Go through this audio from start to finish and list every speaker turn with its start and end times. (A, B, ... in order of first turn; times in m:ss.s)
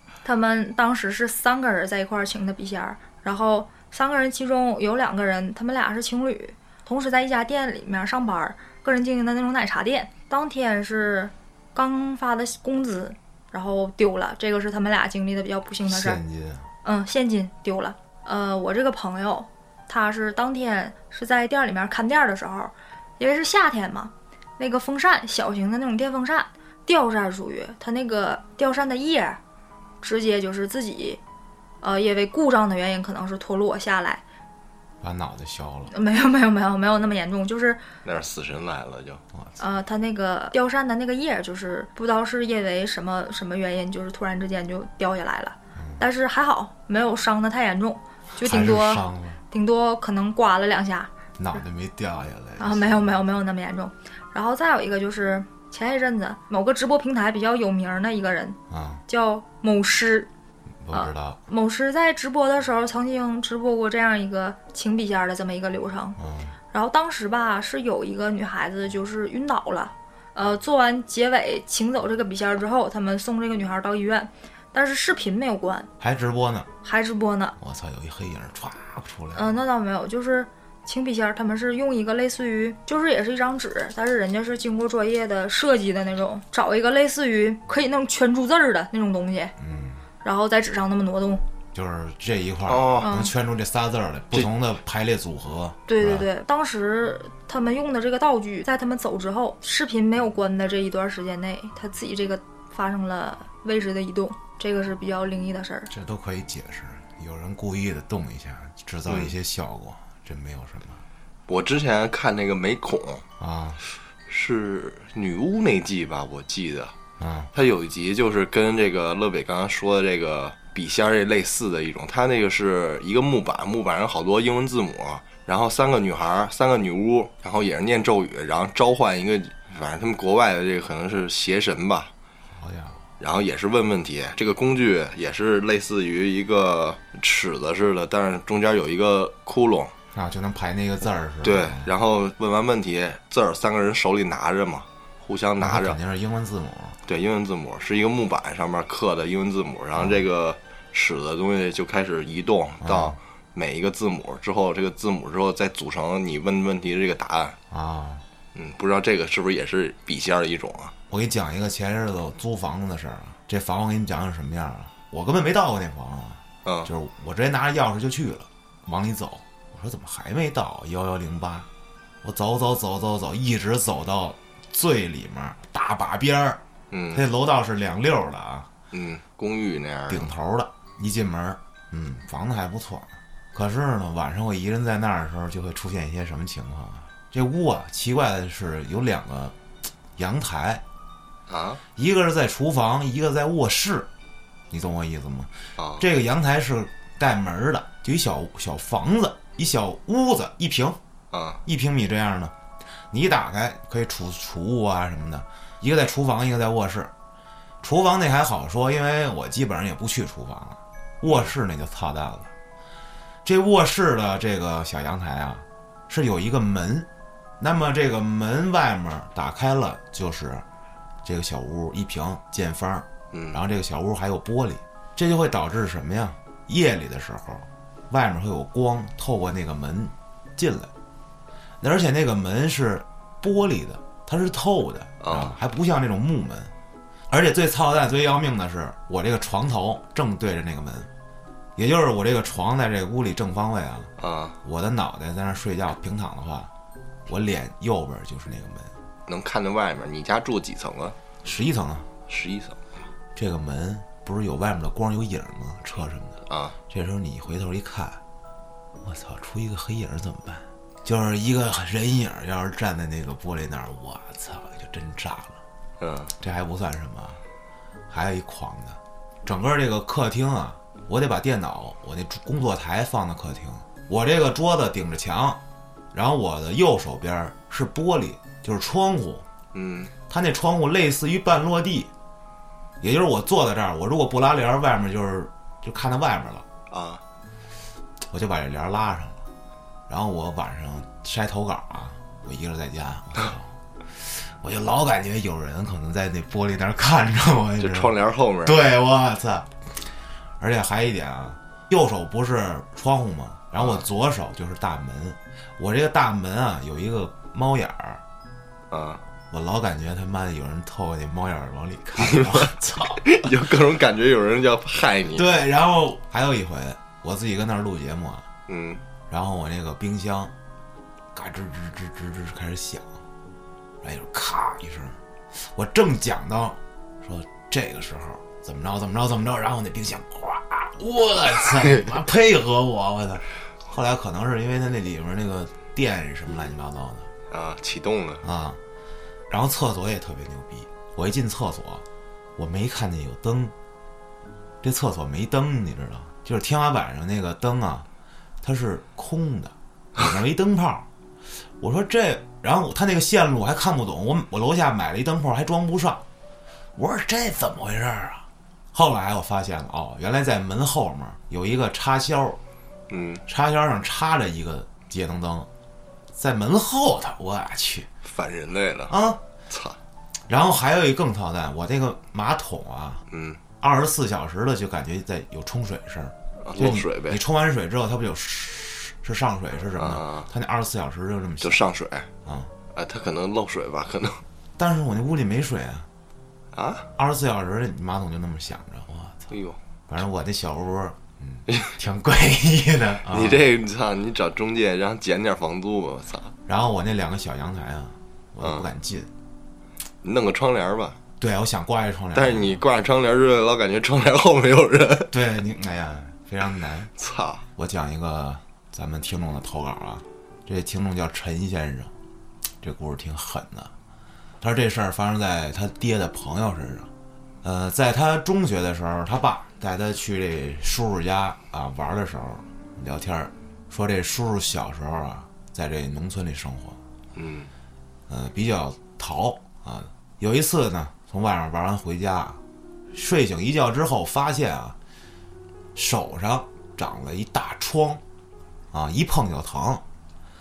0:00.2-0:16.2 A
0:15.9-0:16.7 B
0:16.8-0:29.4 A
0:30.0-0:31.2 A
0:31.8-0:34.2 A
0:35.0-0:35.9 B
0:35.9-0:37.8 A
0:38.0-0:39.2 C
0:39.6-0:51.1 A
0:45.8-0:46.0 B
0:48.3-0:49.4 B
0:51.4-0:53.1 B
0:52.6-1:00.3 A
0:58.7-0:59.0 B
1:00.8-1:01.4 B
1:00.9-1:06.2 A
1:06.2-1:06.6 B
1:06.7-1:15.9 A
1:16.0-1:16.7 B
1:16.8-1:17.6 A
1:17.6-1:19.6 B
1:19.3-1:29.5 A
1:29.6-1:30.0 B
1:30.2-1:31.4 A
1:31.7-1:36.2 B
1:32.7-1:33.1 C
1:33.0-1:33.3 A
1:35.9-1:45.9 A
1:45.9-1:51.0 B
1:49.1-1:49.3 C
1:51.5-1:53.2 C
1:53.4-1:53.8 B
1:54.3-1:56.9 C
1:57.2-1:57.5 B
1:57.5-2:12.1 C
2:12.5-2:13.0 B
2:13.2-2:19.9 C
2:20.1-2:21.9 B
2:21.4-2:26.0 C
2:25.6-2:27.0 B
2:27.0-2:37.6 C
2:30.0-2:30.2 B
2:32.8-2:33.2 B
2:37.7-2:38.2 B
2:38.5-2:40.9 C
2:41.1-2:51.7 B
2:46.6-2:46.9 C
2:52.2-2:56.6 B
2:56.9-2:57.2 C
2:57.1-2:58.7 B
2:58.9-3:00.3 C
3:00.1-3:09.6 B
3:10.2-3:10.8 B
3:11.5-3:11.8 C
3:12.0-3:14.1 B
3:14.7-3:21.0 B
3:15.8-3:16.1 C
3:21.3-3:21.6 C
3:21.6-3:22.5 B
3:23.1-3:27.1 B
3:27.8-3:32.5 B
3:31.2-3:31.5 C
3:33.4-3:40.6 B
3:41.2-3:50.9 B
3:43.3-3:43.6 C
3:51.8-3:56.7 B
3:55.2-3:55.5 C
3:57.3-4:01.1 B
4:01.8-4:04.1 B
4:04.2-4:04.6 C
4:04.6-4:06.7 B
4:07.3-4:08.9 B
4:09.3-4:11.2 C
4:11.4-4:12.1 B
4:12.3-4:12.8 C
4:13.3-4:16.4 B
4:16.5-4:16.8 C
4:16.9-4:18.2 B
4:19.0-4:25.6 B
4:26.0-4:26.3 C
4:26.4-4:27.4 B
4:28.1-4:35.6 B
4:36.1-4:39.4 B
4:39.7-4:40.1 C
4:40.3-4:42.1 B
4:43.0-4:46.6 B
4:46.9-4:47.2 C
4:48.3-4:49.4 B
4:50.1-4:58.1 B
4:57.8-4:58.8 C
4:58.6-5:08.2 B
5:03.8-5:04.0 C
5:08.9-5:09.2 C
5:09.5-5:13.3 B
5:12.2-5:15.5 C
5:15.3-5:18.5 B
5:18.7-5:19.0 C
5:19.3-5:20.5 B
5:21.3-5:23.2 B
5:24.0-5:37.3 B
5:37.5-5:38.4 C
5:38.4-5:38.8 B
5:39.5-5:42.0 B
5:42.6-5:43.7 B
5:44.8-5:48.1 B
5:48.6-5:51.1 B
5:51.8-5:56.2 B
5:57.0-6:02.6 B
6:03.1-6:03.4 C
6:03.4-6:05.7 B
6:06.3-6:08.1 B
6:08.2-6:09.2 C
6:09.1-6:09.4 B
6:09.7-6:10.0 C
6:10.5-6:13.2 B
6:13.3-6:13.6 C
6:13.8-6:21.8 B
6:16.6-6:17.4 C
6:19.9-6:20.5 C
6:21.6-6:22.3 C
6:22.4-6:22.7 B
6:22.9-6:24.4 C
6:24.8-6:26.1 B
6:26.7-6:27.1 C
6:27.2-6:29.5 B
6:29.5-6:29.8 C
6:30.1-6:33.6 B
6:31.7-6:31.9 C
6:33.3-6:36.6 C
6:36.6-6:39.3 B
6:38.6-6:38.9 C
6:40.2-6:41.2 C
6:41.4-6:42.8 B
6:42.3-6:45.3 C
6:45.3-6:47.1 B
6:47.2-6:47.6 C
6:47.8-6:52.1 B
6:52.8-6:53.9 B
6:54.6-6:57.1 B
6:57.6-7:07.0 B
7:07.3-7:07.7 C
7:08.3-7:12.6 B
7:13.1-7:15.0 B
7:15.9-7:18.2 B
7:18.9-7:20.0 B